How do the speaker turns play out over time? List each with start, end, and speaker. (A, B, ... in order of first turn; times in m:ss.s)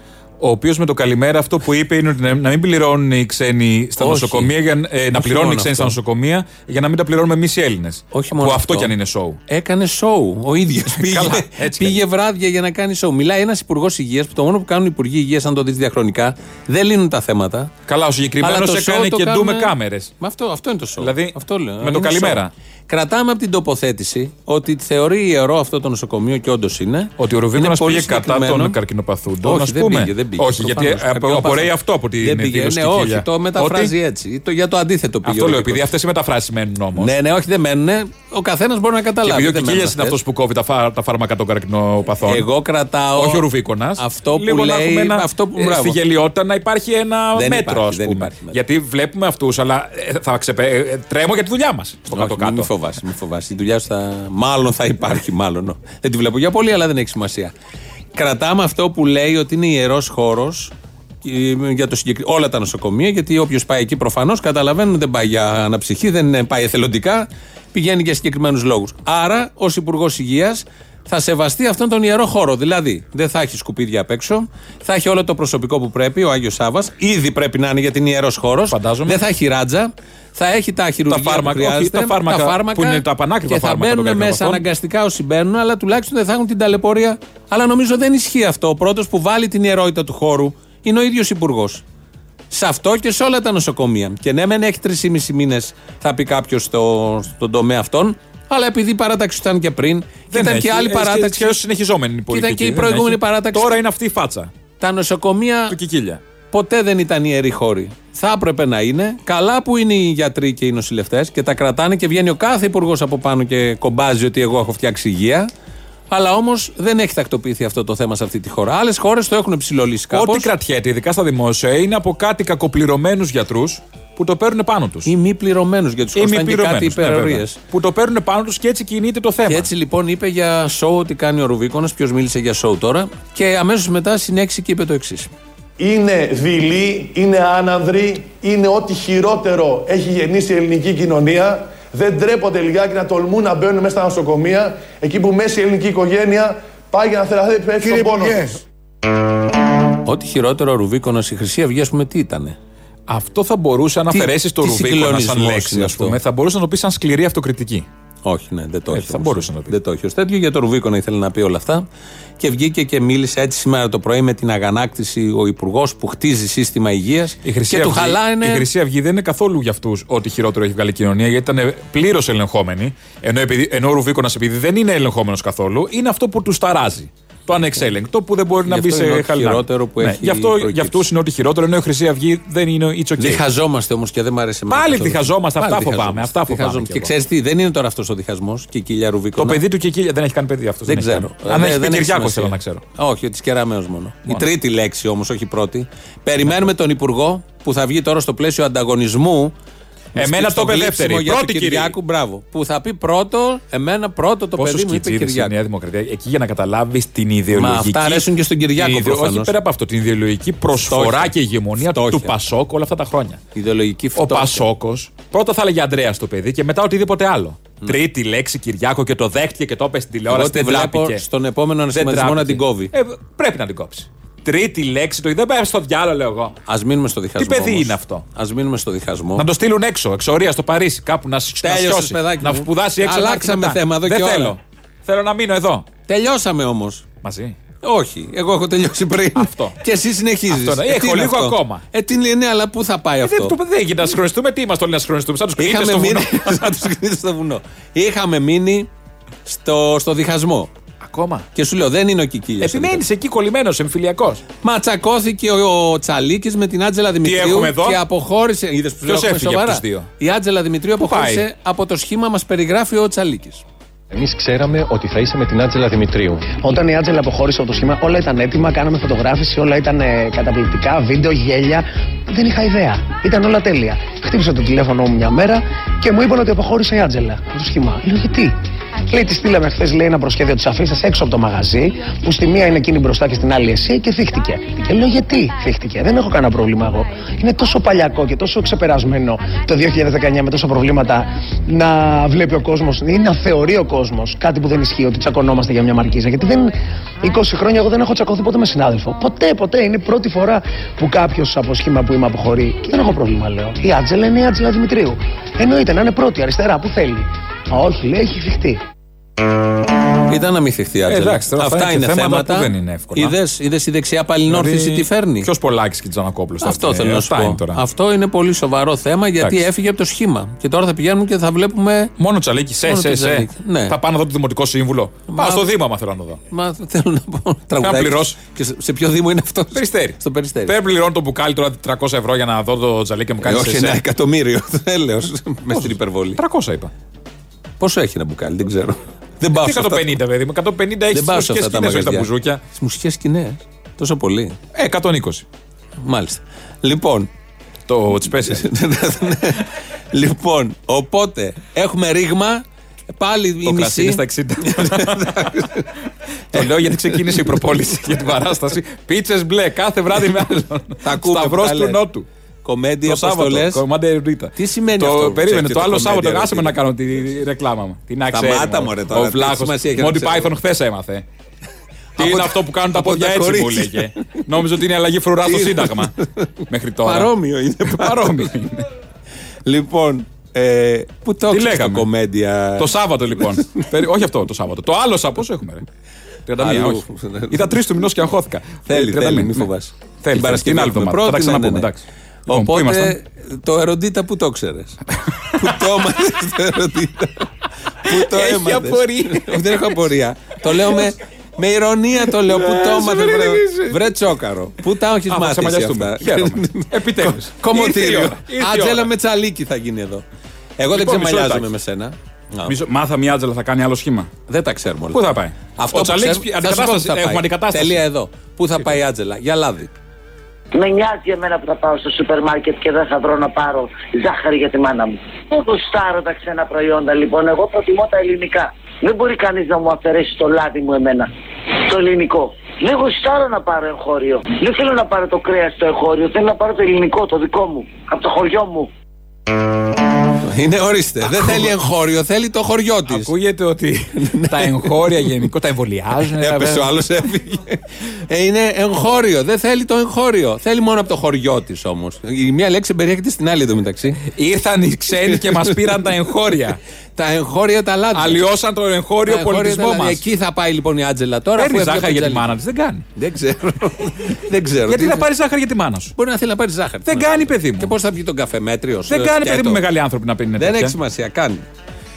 0:00.4-0:09.4 A
0:04.0-0:04.5 B
0:05.1-0:06.0 B
0:08.1-0:08.9 B
0:09.5-0:17.7 B
0:10.9-0:12.0 A
0:17.9-0:20.1 A
0:18.4-0:28.8 B
0:21.0-0:22.5 A
0:27.2-0:33.9 A
0:29.4-0:35.8 B
0:35.2-0:37.1 A
0:37.0-0:40.2 B
0:39.2-0:42.5 A
0:42.2-0:43.4 B
0:43.2-0:52.7 A
0:44.0-0:46.0 B
0:47.3-0:48.6 B
0:52.1-0:57.5 B
0:58.1-1:00.7 B
1:01.2-1:31.8 B
1:18.7-1:19.2 A
1:21.1-1:24.6 A
1:32.5-1:41.6 B
1:40.3-1:44.5 A
1:42.3-1:43.8 B
1:44.8-1:45.8 B
1:45.7-1:46.2 A
1:46.5-1:55.5 B
1:56.1-2:00.5 B
2:00.1-2:05.1 A
2:05.0-2:07.6 B
2:06.1-2:09.7 A
2:09.5-2:15.3 B
2:15.8-2:28.6 C
2:30.0-2:32.6 B
2:33.1-2:37.9 A
2:34.1-2:36.2 B
2:38.2-2:41.8 B
2:38.9-2:39.7 A
2:42.4-2:48.7 B
2:47.4-3:03.4 A
2:58.6-3:01.0 B
3:03.2-3:09.6 B
3:04.7-3:07.1 A
3:09.4-3:12.8 A
3:10.8-3:19.5 B
3:20.1-3:25.5 B
3:20.2-3:21.9 A
3:24.6-3:33.4 A
3:27.5-3:29.5 B
3:30.8-3:32.3 B
3:33.5-3:34.6 B
3:34.2-3:41.2 A
3:40.3-3:42.9 B
3:41.9-3:46.6 A
3:46.6-3:49.4 B
3:47.4-3:48.2 A
3:49.4-3:55.8 A
3:51.6-3:54.6 B
3:56.1-3:57.0 B
3:57.2-3:57.5 A
3:57.8-4:03.5 B
3:59.3-3:59.8 A
4:00.5-4:01.8 A
4:03.2-4:06.8 A
4:05.6-4:08.9 B
4:09.4-4:10.7 B
4:11.0-4:11.4 A
4:11.5-4:13.0 B
4:12.6-4:14.4 A
4:14.6-4:23.6 B
4:17.2-4:18.0 A
4:19.0-4:20.1 A
4:21.0-4:21.4 A
4:24.1-4:26.6 D
4:26.5-4:38.5 E
4:39.0-5:08.8 E
5:10.3-5:15.5 B
5:11.1-5:13.4 A
5:14.5-5:17.8 A
5:16.6-5:22.1 B
5:22.2-5:26.4 A
5:22.8-5:24.0 B
5:25.3-5:25.7 B
5:26.5-5:30.7 B
5:27.8-5:28.4 A
5:29.7-5:34.0 A
5:33.4-5:36.4 B
5:35.7-5:36.9 A
5:37.8-5:40.1 B
5:39.6-5:42.6 A
5:41.1-5:44.6 B
5:44.7-5:45.4 A
5:46.0-5:47.3 B
5:47.9-5:48.7 A
5:48.4-5:55.9 B
5:53.6-5:55.6 A
5:56.5-5:57.6 B
5:56.5-6:02.2 A
6:01.0-6:02.0 B
6:02.6-6:03.8 B
6:03.0-6:11.2 A
6:04.6-6:06.8 B
6:08.3-6:10.5 B
6:12.2-6:14.4 B
6:12.2-6:16.2 A
6:15.4-6:16.5 B
6:16.7-6:17.3 A
6:17.0-6:18.5 B
6:17.8-6:18.8 A
6:19.6-6:23.8 B
6:21.5-6:22.1 A
6:22.8-6:25.8 A
6:26.5-6:29.7 A
6:26.6-6:27.8 B
6:28.9-6:31.9 B
6:30.2-6:33.2 A
6:32.5-6:35.0 B
6:35.5-6:37.5 B
6:38.0-6:50.2 B
6:38.1-6:40.0 A
6:40.7-6:41.1 A
6:42.2-6:44.2 A
6:45.3-6:49.1 A
6:50.8-6:52.7 B
6:50.9-6:51.7 A
6:52.6-6:54.3 A
6:54.5-6:55.2 B
6:55.1-6:58.0 A
6:55.8-6:59.9 B
7:00.7-7:11.3 F
7:11.8-7:18.9 F
7:20.4-7:23.3 B
7:21.3-7:21.7 A
7:23.1-7:26.9 A
7:24.1-7:25.3 B
7:26.2-7:34.2 B
7:34.2-7:36.8 A
7:35.1-7:36.1 B
7:37.2-7:38.4 B
7:38.1-7:40.2 A
7:39.3-7:42.5 B
7:41.6-7:43.0 A
7:43.2-7:45.2 B
7:44.9-7:46.1 A
7:46.2-7:49.8 B
7:47.1-7:47.9 A
7:49.1-7:51.0 A
7:50.6-7:51.6 B